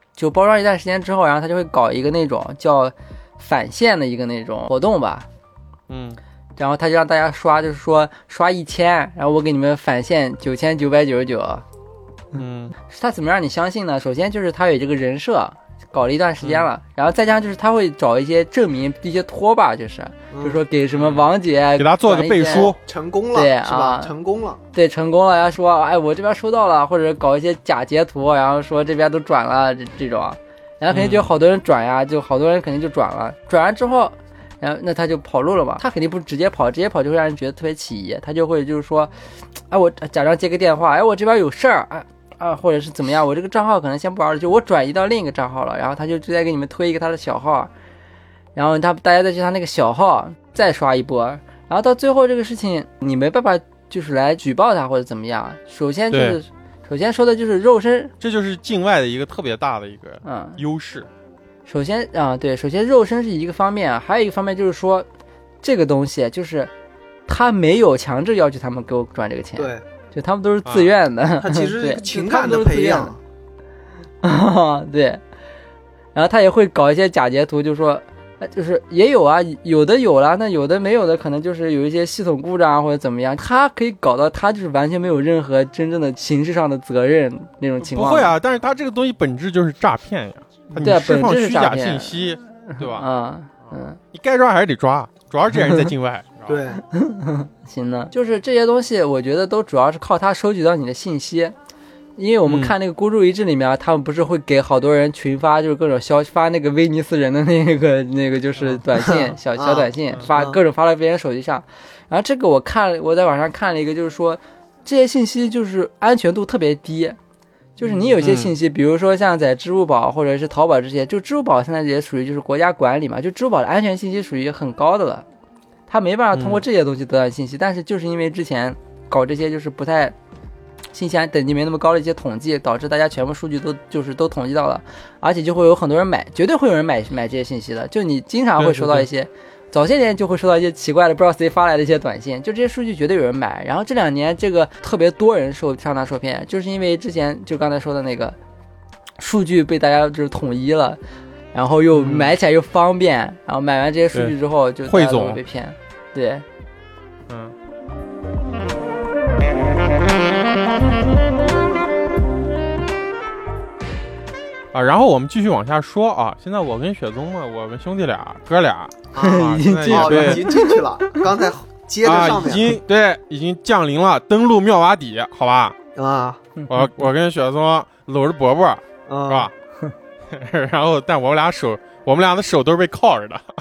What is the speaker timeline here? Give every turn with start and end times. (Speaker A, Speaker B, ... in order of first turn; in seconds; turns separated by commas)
Speaker A: 0.2-5.3, Speaker B: 5.9-6.2, Speaker A: 6.6-11.6, Speaker B: 12.3-12.7, Speaker A: 12.8-22.7, Speaker B: 16.4-16.7, Speaker C: 20.3-20.6, Speaker B: 20.9-21.2, Speaker B: 21.8-22.8, Speaker C: 22.8-24.6, Speaker A: 23.3-24.1, Speaker A: 24.7-39.1, Speaker B: 30.9-31.3, Speaker A: 39.7-47.7, Speaker A: 48.5-58.1, Speaker B: 56.1-56.4, Speaker B: 58.2-61.1, Speaker A: 60.2-60.6, Speaker A: 61.7-65.1, Speaker A: 65.6-66.7, Speaker A: 67.3-73.2, Speaker C: 69.5-69.8, Speaker B: 70.6-70.9, Speaker C: 71.4-73.2, Speaker A: 74.2-75.2, Speaker A: 76.1-88.3, Speaker B: 87.8-93.1, Speaker A: 90.8-92.1, Speaker A: 92.7-94.0, Speaker B: 94.1-96.6, Speaker A: 95.5-95.9, Speaker C: 96.5-96.8, Speaker A: 96.9-101.5, Speaker A: 102.2-117.2, Speaker B: 102.5-102.7, Speaker C: 108.9-110.6, Speaker A: 117.8-125.2, Speaker B: 118.2-118.5, Speaker A: 125.9-130.1, Speaker B: 126.3-126.6, Speaker A: 130.9-148.4, Speaker B: 138.6-139.1, Speaker A: 149.2-151.0, Speaker A: 151.5-156.4, Speaker B: 151.9-152.3, Speaker B: 154.1-155.4, Speaker B: 157.3-157.5, Speaker B: 164.7-170.4, Speaker C: 169.1-172.8, Speaker A: 169.2-171.2, Speaker B: 172.0-175.8, Speaker C: 175.9-176.4, Speaker A: 176.6-176.9, Speaker B: 176.7-179.5, Speaker C: 179.1-179.5, Speaker B: 180.3-183.4